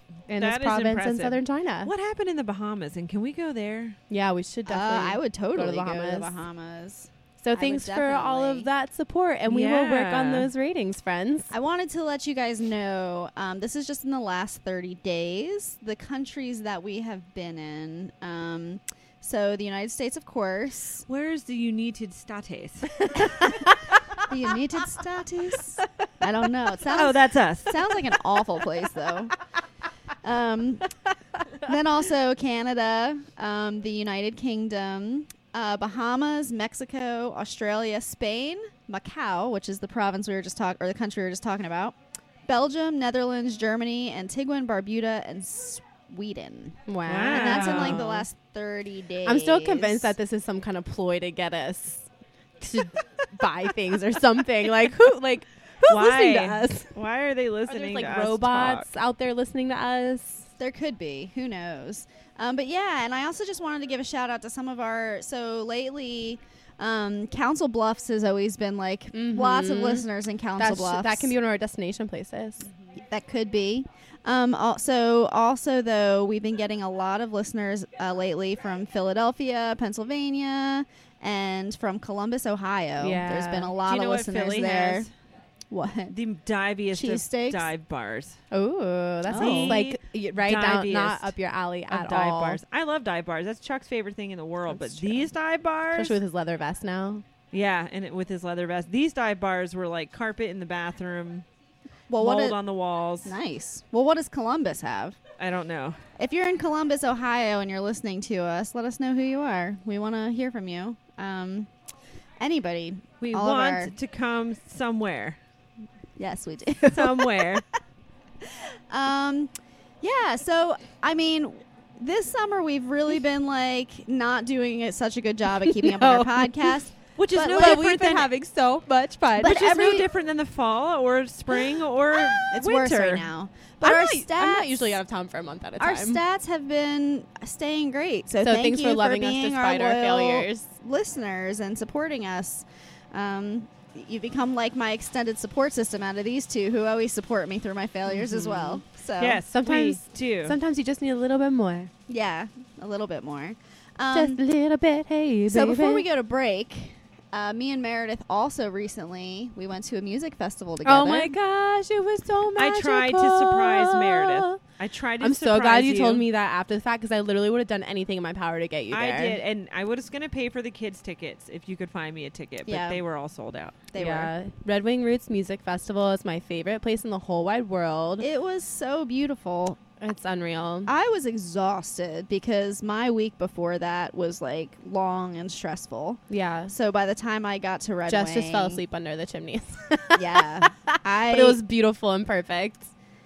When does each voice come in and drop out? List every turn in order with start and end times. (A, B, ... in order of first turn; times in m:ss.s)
0:00.3-0:01.9 A
0:00.3-0:04.0 B
0:04.1-0:06.4 A
0:04.7-0:08.7 C
0:07.4-0:11.5 A
0:09.5-0:10.5 B
0:11.5-0:21.0 C
0:21.1-0:23.1 B
0:23.1-0:23.7 C
0:24.3-0:29.3 C
0:26.9-0:28.0 B
0:30.2-0:30.9 C
0:31.6-0:42.0 C
0:42.5-0:50.1 C
0:46.9-0:48.3 A
0:47.1-0:48.0 B
0:49.2-0:52.1 A
0:52.6-0:56.9 A
0:55.9-0:58.9 B
0:57.6-1:00.5 A
1:00.6-1:11.3 C
1:09.1-1:10.1 A
1:10.6-1:12.7 A
1:12.9-1:25.1 C
1:23.0-1:23.7 A
1:23.8-1:25.1 B
1:25.7-1:26.1 C
1:26.1-1:28.4 B
1:26.9-1:27.7 C
1:28.5-1:32.6 A
1:29.3-1:29.8 C
1:29.3-1:31.3 B
1:31.9-1:36.2 B
1:34.7-1:35.3 A
1:35.9-1:37.2 A
1:37.5-1:41.5 B
1:42.1-1:42.6 C
1:42.2-1:43.3 B
1:43.2-1:45.2 C
1:45.4-1:46.0 B
1:46.2-1:51.7 C
1:52.4-1:53.9 C
1:53.2-1:55.4 B
1:56.2-1:57.5 C
1:56.9-1:57.6 B
1:58.9-2:07.8 C
2:05.8-2:06.5 A
2:07.2-2:08.3 B
2:07.5-2:09.9 A
2:09.4-2:10.1 C
2:09.4-2:13.3 B
2:12.2-2:15.0 C
2:13.8-2:16.2 A
2:15.8-2:29.4 C
2:18.4-2:20.7 A
2:28.1-2:28.8 A
2:29.2-2:30.6 B
2:29.5-2:31.9 A
2:32.1-2:34.4 C
2:34.1-2:36.1 A
2:35.5-2:41.4 C
2:40.8-2:44.6 A
2:42.6-2:46.3 B
2:45.2-2:49.4 A
2:48.9-2:53.8 B
2:52.7-2:53.0 C
2:53.9-2:54.3 C
2:54.0-2:58.3 A
2:58.2-2:59.8 C
3:00.0-3:00.9 A
3:00.9-3:08.8 C
3:06.3-3:06.7 A
3:08.1-3:12.9 A
3:10.1-3:11.6 C